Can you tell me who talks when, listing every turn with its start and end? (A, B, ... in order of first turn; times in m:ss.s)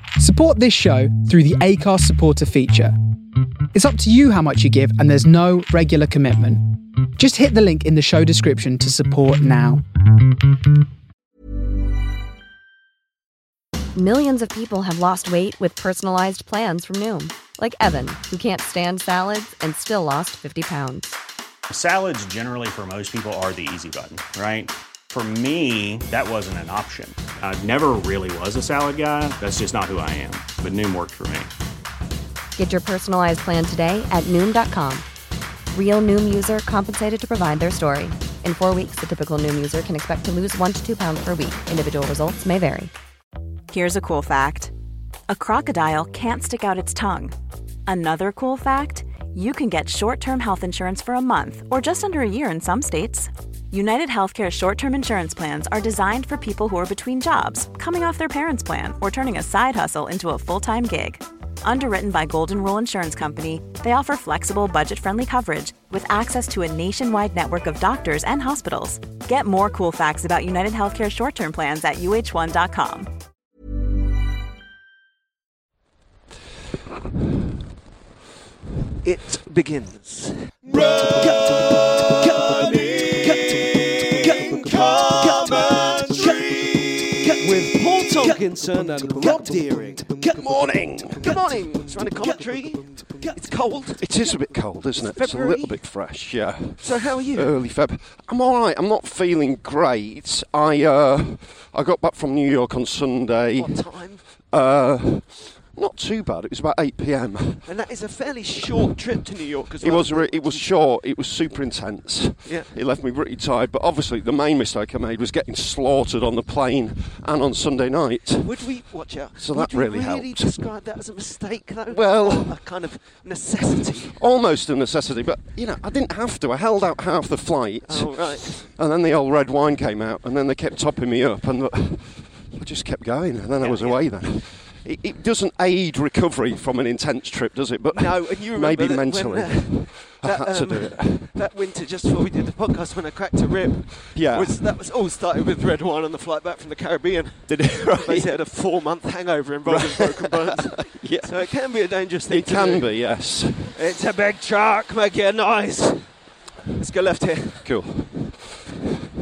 0:00.2-0:02.9 A
0:03.7-0:09.8 A
0:13.9-0:21.2 B
0:21.7-0:31.5 C
0:32.6-0:35.0 B
0:35.7-0:42.9 B
0:43.7-0:44.7 D
0:45.3-0:47.3 D
0:47.8-1:13.1 D
1:19.0-1:30.4 E
1:24.6-1:26.9 F
1:30.2-1:31.5 F
1:31.1-1:35.9 E
1:34.0-1:47.7 F
1:36.8-1:37.6 E
1:43.6-1:44.2 E
1:47.6-1:50.8 E
1:49.8-1:58.5 F
1:52.4-1:52.7 E
1:58.4-2:04.2 E
1:59.4-2:00.5 F
2:01.9-2:02.5 F
2:04.2-2:21.3 F
2:07.8-2:08.6 E
2:13.6-2:14.1 E
2:17.9-2:36.2 E
2:24.1-2:24.6 F
2:27.5-2:28.4 F
2:29.6-2:31.5 F
2:32.3-2:33.8 F
2:36.7-2:37.9 E
2:37.6-2:38.3 F